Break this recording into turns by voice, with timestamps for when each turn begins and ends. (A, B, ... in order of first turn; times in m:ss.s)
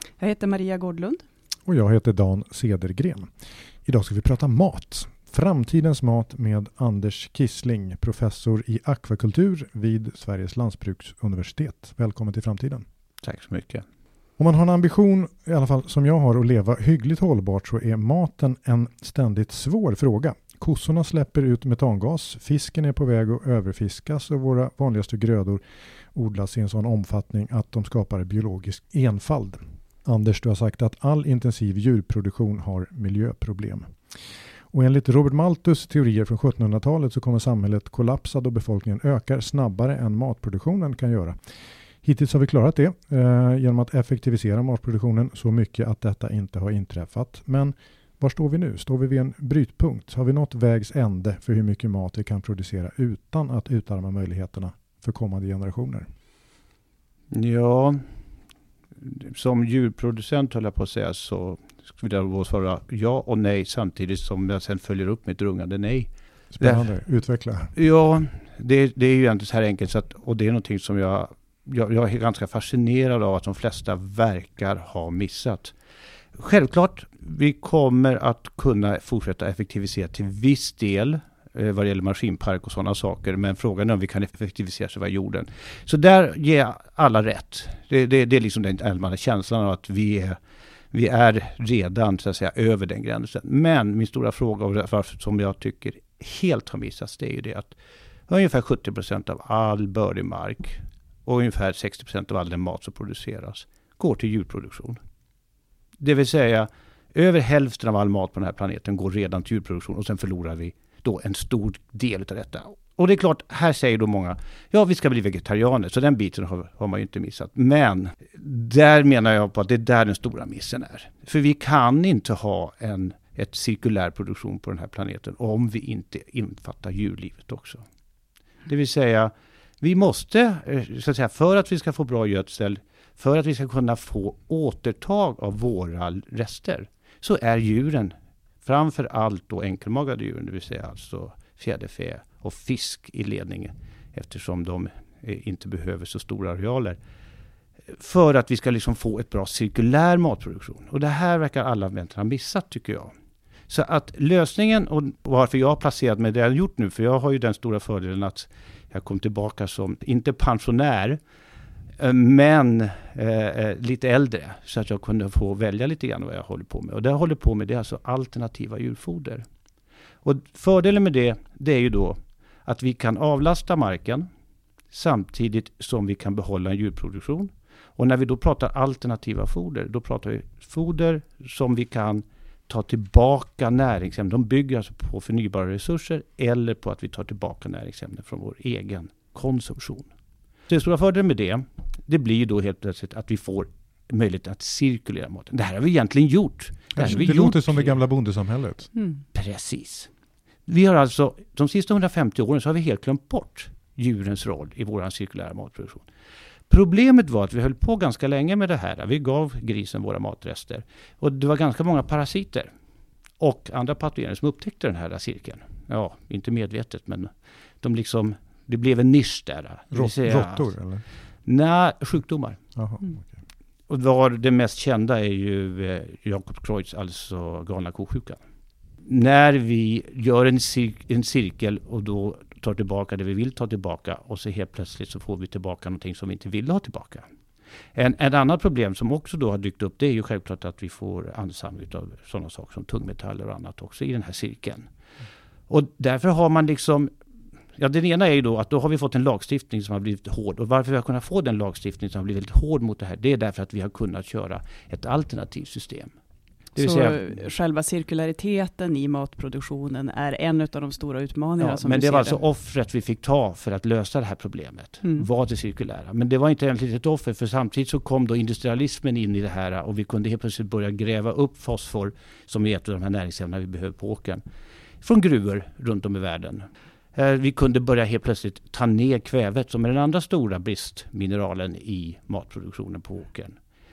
0:00.2-0:01.2 A
0:01.6-0:03.3 B
0:03.8-0:12.8 B
0:13.2-0:13.8 C
0:14.4-0:25.6 B
0:26.1-0:34.1 B
0:34.7-0:56.1 B
0:57.3-0:58.0 C
0:59.0-1:06.9 C
1:06.5-1:07.7 B
1:07.7-1:15.7 C
1:16.3-1:30.4 C
1:30.9-1:37.7 C
1:38.3-1:45.0 C
1:46.0-2:07.8 C
2:08.7-2:27.0 C
2:27.9-2:33.1 C
2:33.7-2:41.2 C
2:42.0-2:49.4 C
2:50.2-2:54.3 C
2:54.9-3:10.1 C
3:10.7-3:18.0 C
3:17.0-3:18.9 B
3:19.0-3:19.2 A
3:19.3-3:20.1 C
3:20.7-3:26.1 C
3:26.7-3:32.7 C
3:33.4-3:40.7 C
3:39.9-3:41.0 B
3:41.4-3:42.6 C
3:42.7-3:43.3 B
3:43.9-3:48.4 C
3:49.0-3:57.2 C
3:57.9-4:04.9 C
4:05.7-4:07.1 C
4:07.8-4:16.1 C
4:16.7-4:17.3 C
4:16.8-4:22.4 A
4:21.6-4:34.4 C
4:35.0-4:43.6 C